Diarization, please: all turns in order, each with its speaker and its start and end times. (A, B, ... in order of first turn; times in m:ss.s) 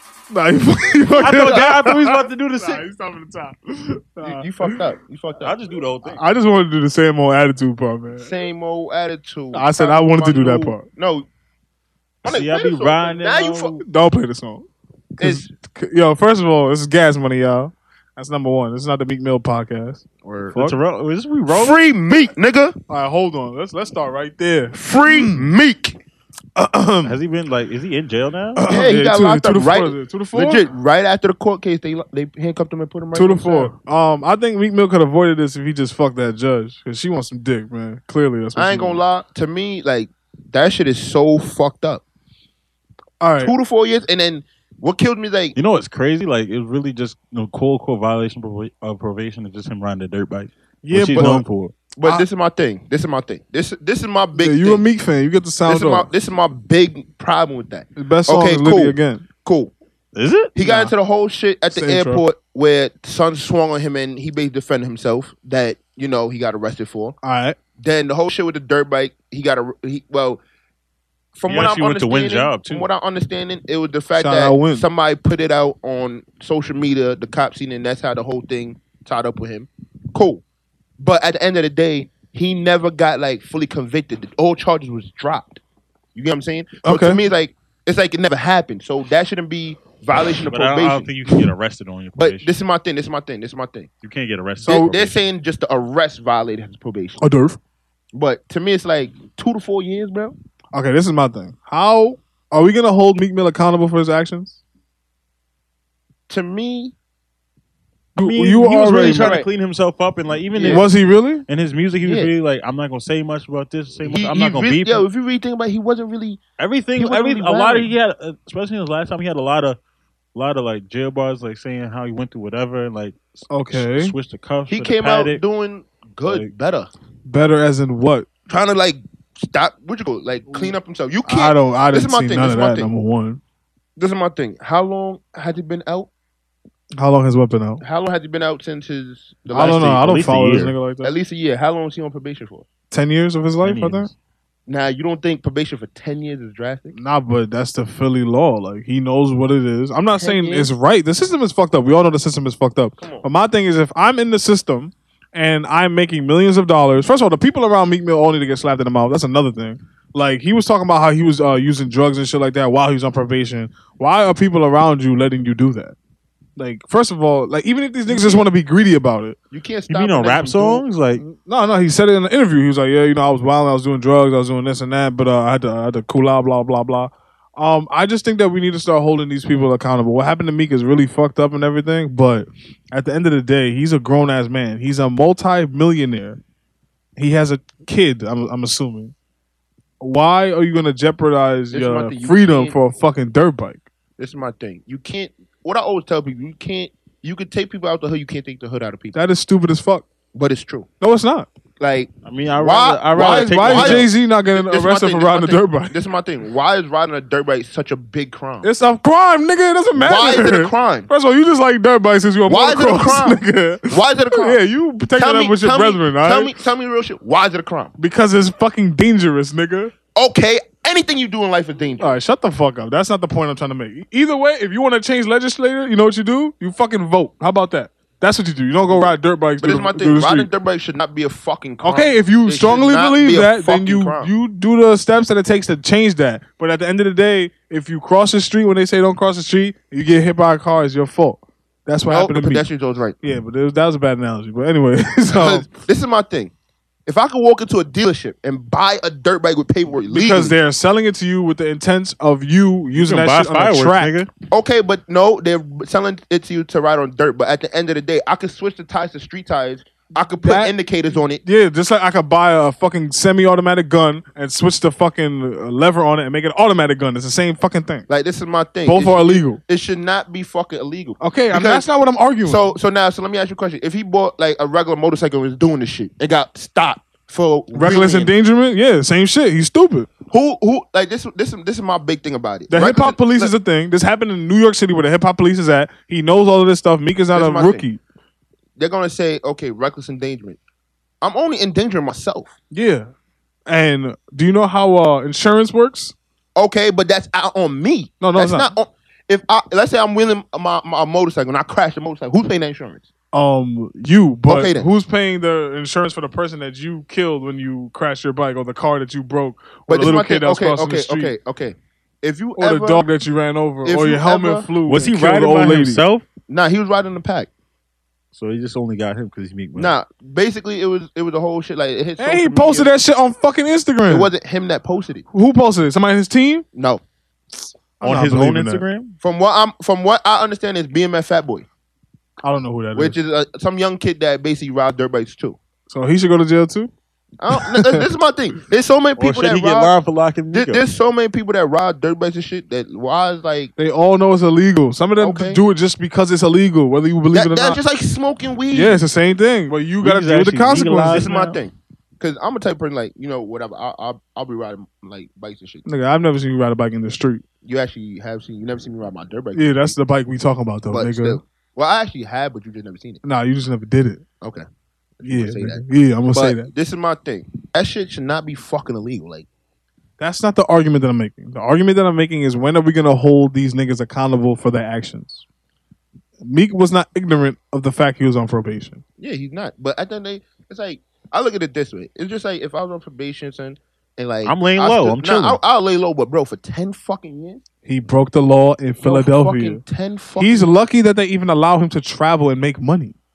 0:00.3-0:04.8 A
0:01.2-0:02.9 B
0:01.4-0:01.7 C
0:04.2-0:05.6 C
0:05.4-0:06.2 B
0:06.0-0:08.3 A
0:08.2-0:11.3 C
0:09.5-0:10.9 A
0:12.2-0:13.8 B
0:12.2-0:13.8 C
0:13.8-0:20.8 A
0:15.2-0:15.5 C
0:20.2-0:20.5 C
0:20.5-0:21.8 B
0:21.5-0:22.8 C
0:22.9-0:25.5 A
0:24.7-0:26.0 C
0:26.6-0:27.2 A
0:27.0-0:28.7 B
0:28.6-0:30.7 A
0:28.7-0:33.7 C
0:33.1-0:39.0 A
0:38.6-0:42.0 C
0:43.2-0:43.5 A
0:43.4-0:45.6 C
0:45.6-0:51.7 B
0:50.9-0:51.5 A
0:52.0-0:54.8 C
0:54.4-0:56.1 A
0:55.7-0:59.7 C
0:58.0-0:59.2 A
1:00.1-1:00.9 B
1:00.6-1:07.2 C
1:01.7-1:02.2 A
1:07.2-1:07.6 A
1:07.8-1:10.4 C
1:11.3-1:20.4 C
1:11.5-1:12.9 B
1:14.2-1:14.9 A
1:21.0-1:25.6 C
1:26.2-1:31.1 C
1:26.8-1:27.2 A
1:30.5-1:32.5 B
1:32.2-1:33.9 C
1:34.0-1:35.2 B
1:34.6-1:34.9 A
1:34.7-1:37.2 C
1:37.2-1:37.6 A
1:38.1-1:40.4 C
1:40.7-1:44.6 A
1:46.3-1:47.0 C
1:48.2-1:49.4 A
1:48.2-1:50.9 B
1:49.0-1:49.5 C
1:50.5-1:50.9 C
1:50.6-1:51.4 A
1:51.5-1:55.1 B
1:52.0-1:52.3 C
1:54.0-1:56.4 C
1:56.6-1:59.8 B
1:57.0-1:57.9 C
2:00.4-2:05.4 B
2:03.5-2:04.1 A
2:04.7-2:06.9 C
2:06.2-2:06.5 B
2:07.3-2:08.3 A
2:08.5-2:12.9 C
2:11.3-2:13.4 A
2:14.0-2:16.1 C
2:17.0-2:17.8 A
2:17.8-2:20.3 C
2:19.5-2:21.1 A
2:19.6-2:20.8 B
2:21.0-2:22.7 C
2:22.9-2:24.1 A
2:23.6-2:24.1 B
2:24.7-2:27.0 C
2:26.9-2:46.0 A
2:30.2-2:30.7 C
2:33.0-2:33.3 C
2:46.6-2:49.4 A
2:48.1-2:48.5 C
2:49.5-2:50.8 C
2:49.9-2:51.2 B
2:51.2-3:06.4 A
3:07.2-3:09.1 A
3:10.0-3:13.8 A
3:11.7-3:12.8 C
3:14.2-3:19.2 C
3:19.1-3:20.1 A
3:20.3-3:20.9 C
3:21.0-3:21.5 A
3:21.8-3:28.7 C
3:22.2-3:24.1 B
3:23.1-3:26.0 A
3:28.6-3:36.5 A
3:30.0-3:31.1 C
3:32.5-3:34.6 C
3:35.2-3:37.9 C
3:38.0-3:39.9 A
3:40.2-3:42.2 C
3:42.0-3:50.5 A
3:48.9-3:54.3 C
3:51.8-4:02.7 A
4:02.1-4:03.2 C
4:03.2-4:05.7 A
4:05.3-4:06.5 C
4:07.1-4:10.6 C
4:10.1-4:14.2 A
4:13.0-4:14.3 B
4:14.5-4:21.4 C
4:20.4-4:20.7 A
4:21.4-4:28.1 A
4:28.1-4:31.9 C
4:28.9-4:29.6 A
4:31.2-4:32.8 A
4:32.4-4:38.3 C
4:37.7-4:40.1 A
4:40.3-4:43.5 C
4:42.7-4:48.0 A
4:47.3-4:47.8 C
4:48.8-4:50.6 C
4:51.2-4:52.5 C
4:52.7-4:53.1 A
4:53.7-4:56.2 A
4:56.6-5:03.1 C
4:58.2-4:58.7 A
5:03.3-5:11.3 A
5:04.5-5:04.9 C
5:09.9-5:13.0 C
5:12.6-5:16.0 A
5:13.8-5:14.7 C
5:14.9-5:16.2 B
5:16.5-5:17.5 C
5:18.3-5:19.9 B
5:19.8-5:22.9 C
5:22.2-5:24.3 A
5:24.1-5:25.3 C
5:25.3-5:26.6 A
5:26.7-5:27.0 C
5:28.0-5:28.8 A
5:28.0-5:29.2 B
5:29.2-5:31.7 C
5:32.4-5:33.2 A
5:33.0-5:35.6 C
5:35.9-5:36.9 A
5:37.4-5:40.0 C
5:37.5-5:38.0 A
5:39.2-5:40.9 B
5:40.5-5:43.7 C
5:43.8-5:47.8 A
5:45.2-5:45.6 C
5:47.3-5:49.0 C
5:48.7-5:51.3 A
5:50.0-5:51.6 B
5:51.1-5:55.9 C
5:55.9-5:57.4 A
5:57.6-6:00.0 C
5:59.6-6:01.4 A
6:00.9-6:03.2 C
6:03.2-6:04.2 A
6:04.4-6:04.7 C
6:05.2-6:09.5 C
6:05.2-6:06.7 A
6:10.2-6:15.4 A
6:16.4-6:19.0 A
6:19.2-6:27.6 C
6:24.4-6:25.6 B
6:27.8-6:29.8 A
6:29.0-6:30.7 C
6:30.4-6:33.2 A